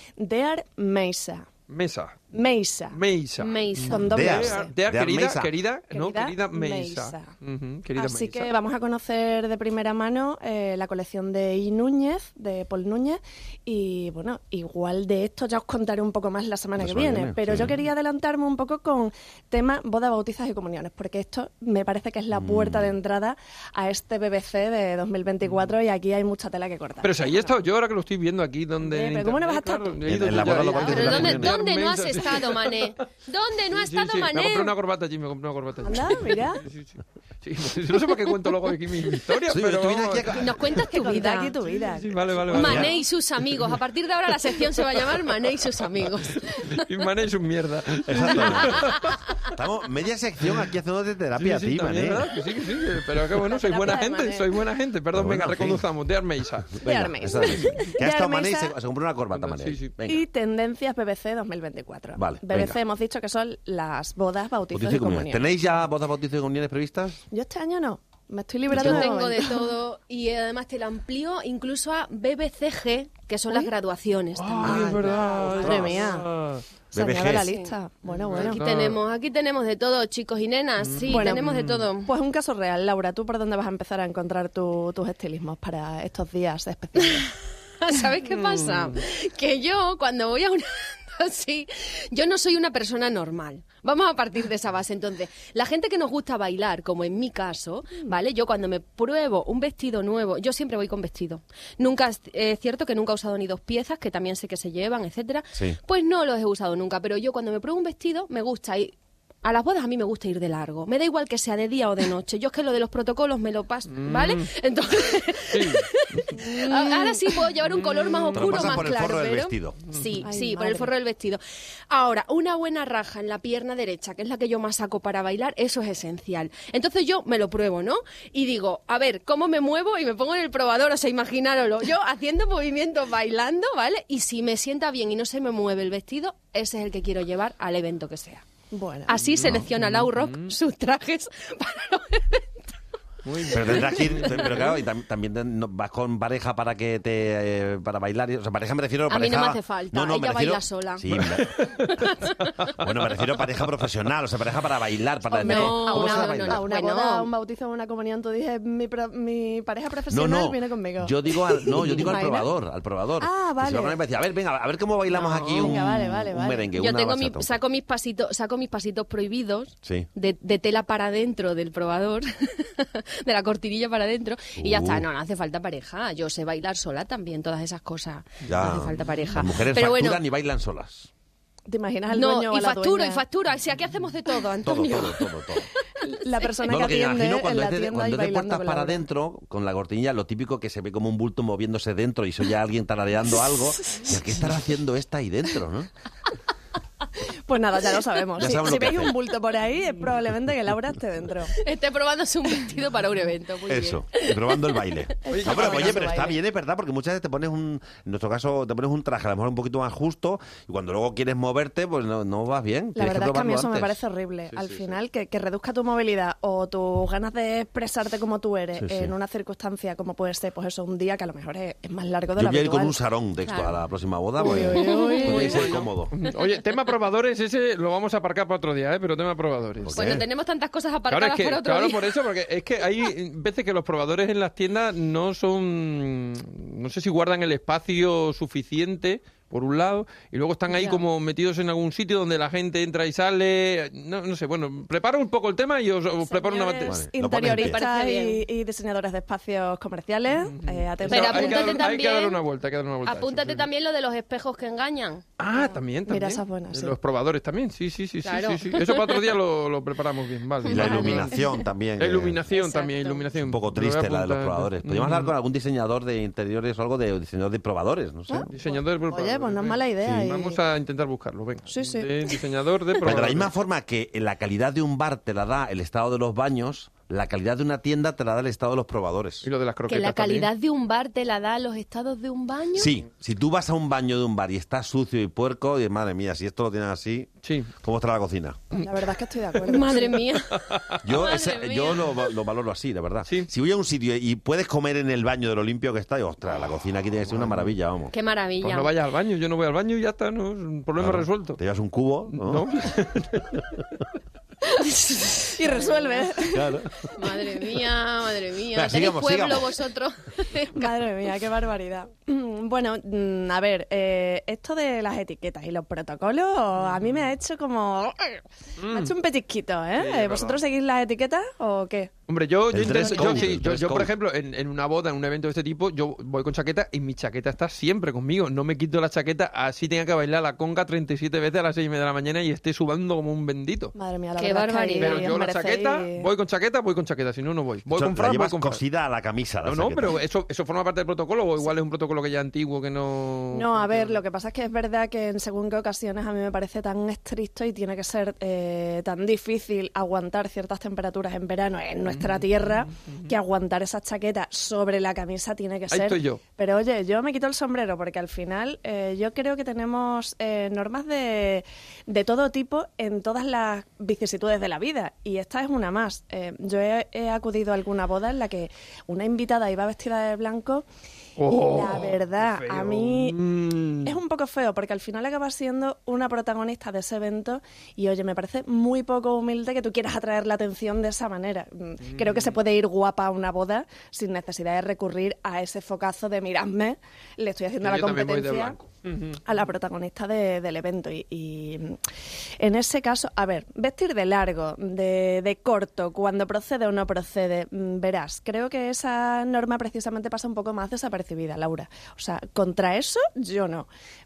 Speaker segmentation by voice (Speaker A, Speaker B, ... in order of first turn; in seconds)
Speaker A: 0.2-1.5, 2.3-3.0, 3.9-4.8, 5.9-7.3, 8.0-27.5, 28.8-31.1, 35.8-36.6, 40.7-42.9, 53.3-54.5, 56.8-58.8, 60.1-65.6, 67.3-69.7, 74.6-76.3, 76.9-78.6, 81.1-87.3, 116.4-117.2, 120.2-120.9, 138.7-139.4, 155.4-162.5, 163.2-164.0, 165.1-166.7, 181.7-183.2, 186.0-189.1, 197.5-201.5, 205.2-206.4, 212.9-223.0, 224.4-225.9, 246.3-251.9, 255.5-257.0, 268.3-270.6, 271.7-272.1, 288.8-290.3, 305.6-307.0, 310.7-322.1, 322.9-323.4, 333.9-336.3, 343.5-370.9, 371.5-373.4, 374.0-388.8, 389.4-392.0, 392.6-403.9
Speaker B: 1.7-2.2, 2.9-8.5, 25.4-25.7, 27.0-33.0, 33.7-40.5, 41.7-43.0, 46.5-49.2, 51.4-56.8, 59.3-59.9, 74.4-76.6, 78.1-79.0, 80.8-81.9, 88.1-89.0, 113.9-114.5, 115.5-116.5, 117.7-118.8, 139.3-140.5, 143.2-144.7, 151.2-151.9, 205.3-206.1, 224.5-230.0, 231.1-247.0, 250.3-253.7, 255.4-261.4, 262.0-265.3, 268.5-273.5, 279.4-280.5, 287.4-287.7, 290.5-291.0, 297.3-297.7, 298.6-301.6, 302.3-303.7, 316.8-317.3, 318.8-319.1, 320.0-320.6, 322.3-333.9, 335.0-338.8, 339.6-344.2, 352.2-353.2, 355.9-356.4, 371.4-374.1, 387.8-389.4
Speaker C: 3.4-4.1, 30.8-34.8, 40.3-41.6, 42.5-46.9, 48.6-49.4, 68.7-75.7, 77.4-77.8, 78.3-82.1, 87.0-138.4, 139.1-142.5, 149.1-152.6, 155.3-157.3, 166.8-180.3, 182.1-185.7, 201.5-204.9, 223.4-223.8, 224.8-225.6, 229.9-232.2, 240.7-241.0, 247.4-248.4, 251.1-252.4, 253.0-255.2, 258.2-259.4, 260.6-261.6, 262.5-263.2, 279.9-282.9, 289.6-292.3, 298.1-299.0, 304.8-306.3, 307.0-311.0, 334.4-335.3
Speaker D: 4.0-5.5, 16.8-17.8, 22.3-22.9, 30.1-31.6, 39.5-40.6, 42.5-42.9, 48.0-48.9, 49.4-52.3, 55.1-55.9, 56.7-60.2, 62.2-62.8, 64.7-67.2, 68.8-69.1, 76.9-77.5, 118.3-119.8, 143.5-151.5, 152.7-156.7, 160.1-167.6, 174.6-175.1, 178.4-181.1, 184.6-185.7, 186.6-195.9, 198.4-199.1, 203.7-214.0, 214.5-214.9, 218.8-219.1, 222.4-226.1, 229.8-230.2, 246.8-247.8, 260.7-262.4, 263.4-268.5, 273.0-279.5, 282.8-288.6, 291.0-298.1, 301.0-303.8, 306.4-307.0, 308.7-309.7, 322.7-324.1, 337.9-340.1